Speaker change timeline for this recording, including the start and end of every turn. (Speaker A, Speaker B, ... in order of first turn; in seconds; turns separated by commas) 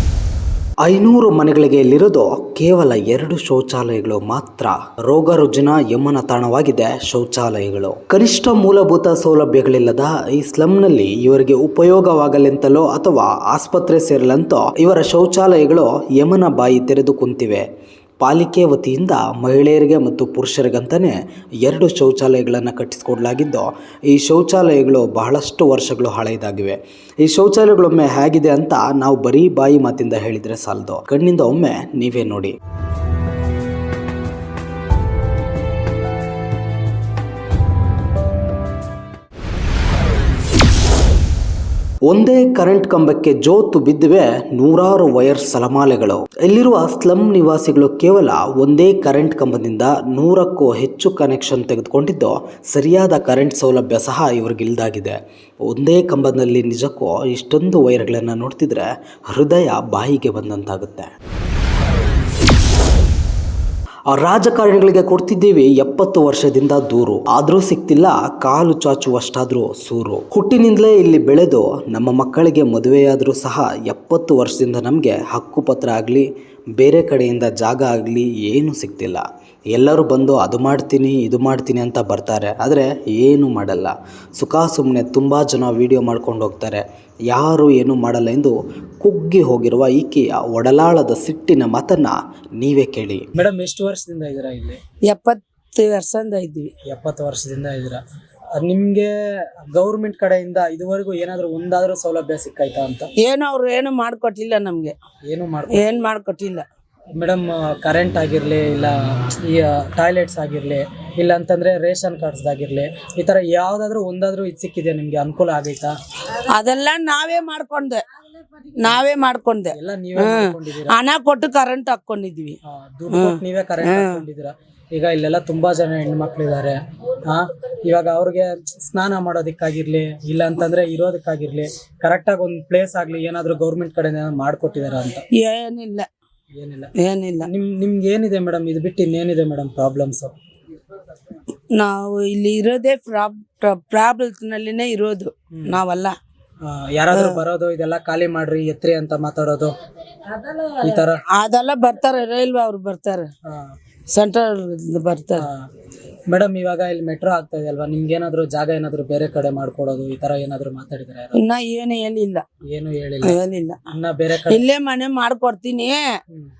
Speaker A: 0.8-17.6, Speaker A: 18.2-32.5, Speaker A: 42.1-55.2, Speaker A: 55.7-61.1, Speaker A: 64.1-93.3, Speaker B: 93.3-94.8, Speaker C: 95.1-96.7, Speaker B: 96.9-98.0, Speaker B: 98.5-103.1, Speaker C: 103.2-105.0, Speaker B: 105.3-105.9, Speaker C: 105.7-106.7, Speaker B: 107.1-116.0, Speaker C: 116.3-118.0, Speaker C: 118.8-122.6, Speaker B: 119.7-121.0, Speaker B: 122.7-135.2, Speaker C: 123.1-124.2, Speaker C: 135.4-136.1, Speaker B: 136.5-140.3, Speaker C: 137.0-137.5, Speaker C: 141.7-146.2, Speaker B: 145.5-145.8, Speaker B: 146.6-149.8, Speaker C: 147.2-147.4, Speaker C: 150.5-153.3, Speaker B: 150.8-151.2, Speaker B: 153.5-153.8, Speaker C: 154.1-155.4, Speaker B: 155.4-155.7, Speaker B: 156.3-161.4, Speaker C: 161.4-162.4, Speaker B: 162.7-164.7, Speaker C: 163.2-166.1